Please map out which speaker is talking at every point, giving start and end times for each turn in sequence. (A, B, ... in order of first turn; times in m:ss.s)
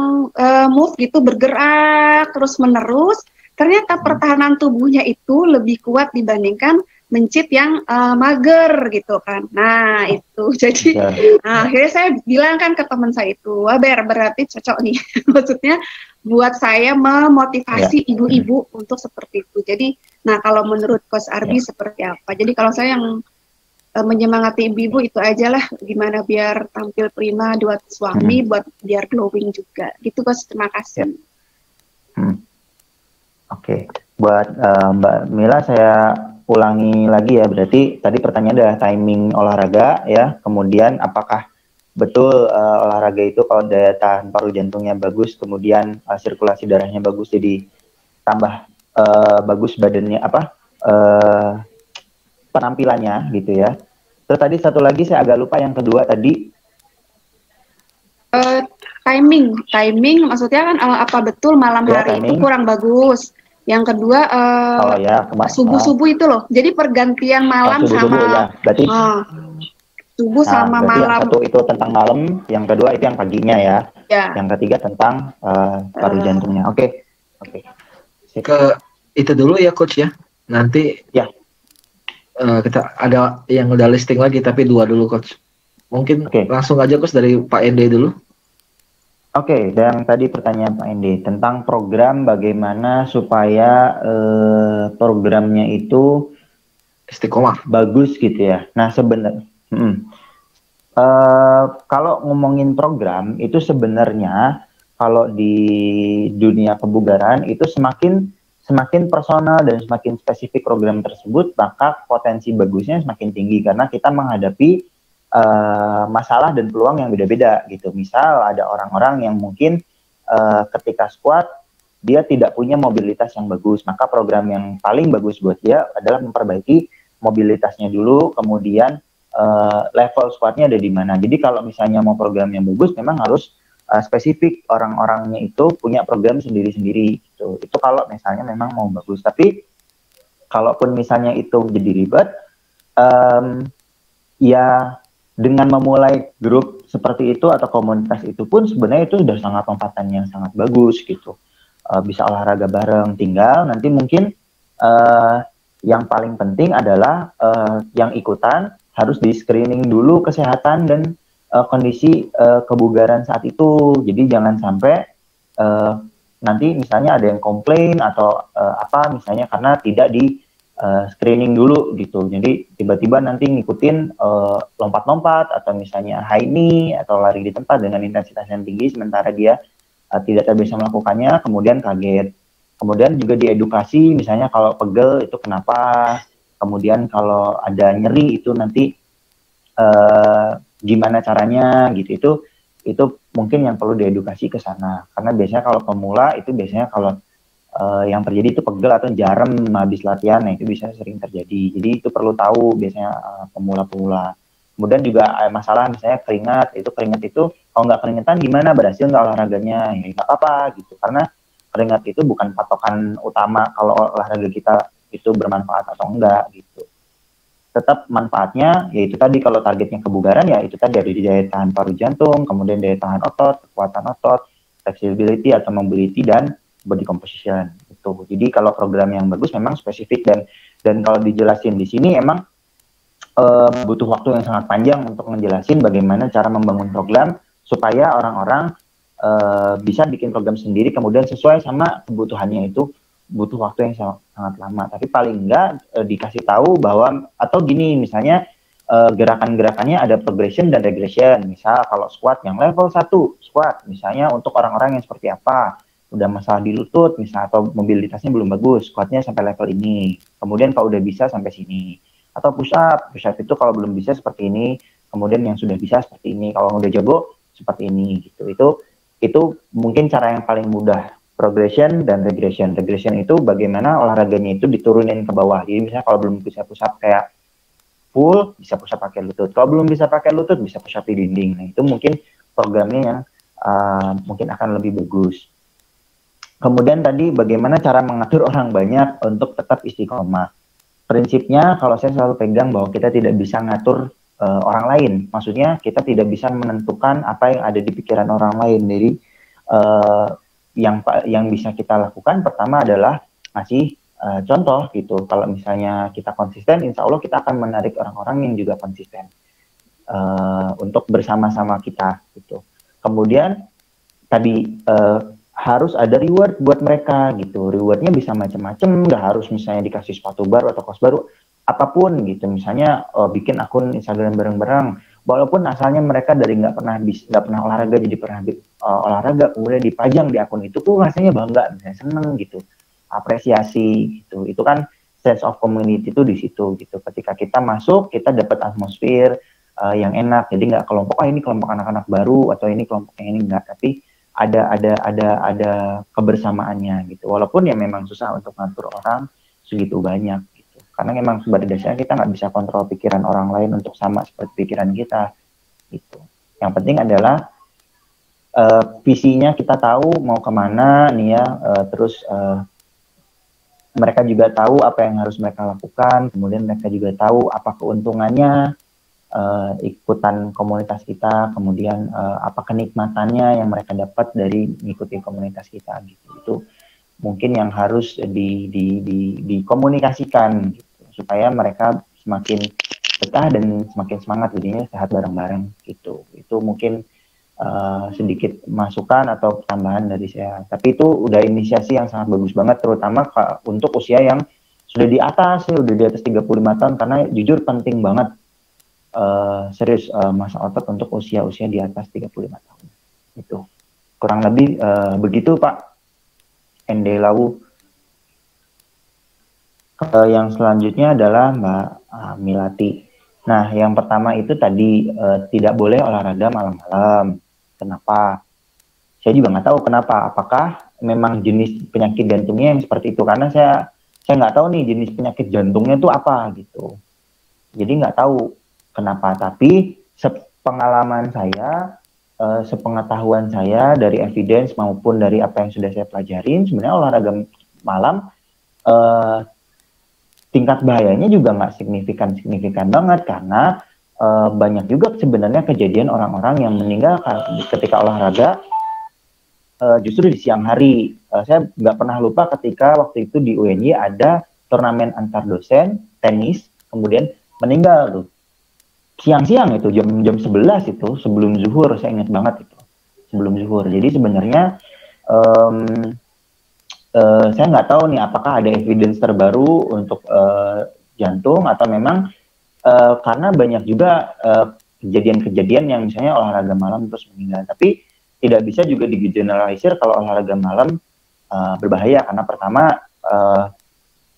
0:00.4-0:15.8 A
0:10.8-0:11.6 B
0:16.3-0:23.0 A
0:17.8-0:18.5 B
0:24.0-0:31.1 A
0:33.5-0:36.0 B
0:36.5-0:41.4 B
0:42.0-0:47.6 B
0:48.3-0:51.6 B
0:52.5-0:53.7 B
0:54.3-0:56.4 B
0:58.3-1:05.0 A
1:01.9-1:02.5 B
1:04.8-1:05.9 B
1:05.5-1:09.2 A
1:07.6-1:09.0 B
1:10.2-1:11.3 A
1:10.5-1:13.8 B
1:14.1-1:14.4 A
1:14.4-1:16.9 B
1:16.0-1:16.4 A
1:17.4-1:17.6 B
1:18.4-1:21.0 C
1:22.4-1:25.3 C
1:25.9-1:28.1 C
1:29.4-1:36.0 B
1:37.1-1:37.6 C
1:37.7-1:40.0 B
1:41.0-1:44.4 B
1:45.0-1:54.7 B
1:55.4-1:59.8 B
2:00.3-2:01.4 B
2:02.0-2:19.5 B
2:20.5-2:22.3 B
2:23.0-2:23.6 B
2:24.4-2:24.7 B
2:25.4-2:31.3 B
2:31.9-2:34.2 B
2:34.8-2:41.0 B
2:41.6-2:45.0 B
2:45.6-2:50.3 B
2:50.8-2:59.6 B
3:00.2-3:02.3 B
3:02.8-3:08.9 B
3:09.8-3:12.3 B
3:12.9-3:17.1 B
3:17.8-3:31.2 B
3:31.7-3:36.8 B
3:37.8-3:52.4 B
3:53.4-3:58.7 B
3:59.2-4:02.8 B
4:03.4-4:08.4 B
4:09.0-4:28.7 B
4:29.2-4:37.2 B
4:38.1-4:45.4 B
4:46.6-4:50.5 B
4:51.1-4:59.1 B
4:59.7-5:09.3 B
5:10.1-5:13.5 B
5:14.3-5:32.6 B
5:33.2-5:39.3 B
5:39.9-5:43.9 B
5:44.4-5:55.2 B
5:55.9-5:57.4 B
5:58.6-6:02.6 B
6:04.0-6:08.5 B
6:09.4-6:16.6 B
6:17.2-6:22.6 B
6:23.2-6:26.9 B
6:27.6-6:34.4 B
6:34.9-6:38.3 B
6:39.2-6:42.8 B
6:43.4-6:43.6 B
6:44.2-6:45.8 B
6:46.9-6:47.5 B
6:50.0-6:52.9 B
6:53.5-6:58.3 B
6:59.2-7:03.7 B
7:04.3-7:06.9 B
7:07.8-7:08.4 B
7:09.0-7:11.7 B
7:12.4-7:17.4 B
7:17.9-7:18.2 B
7:18.9-7:19.4 B
7:20.5-7:23.7 B
7:24.2-7:28.5 B
7:29.8-7:38.3 B
7:39.2-7:42.8 B
7:43.3-7:44.6 B
7:45.3-7:46.1 B
7:47.2-7:52.2 B
7:52.9-7:57.9 B
7:58.4-8:00.9 B
8:01.5-8:03.7 B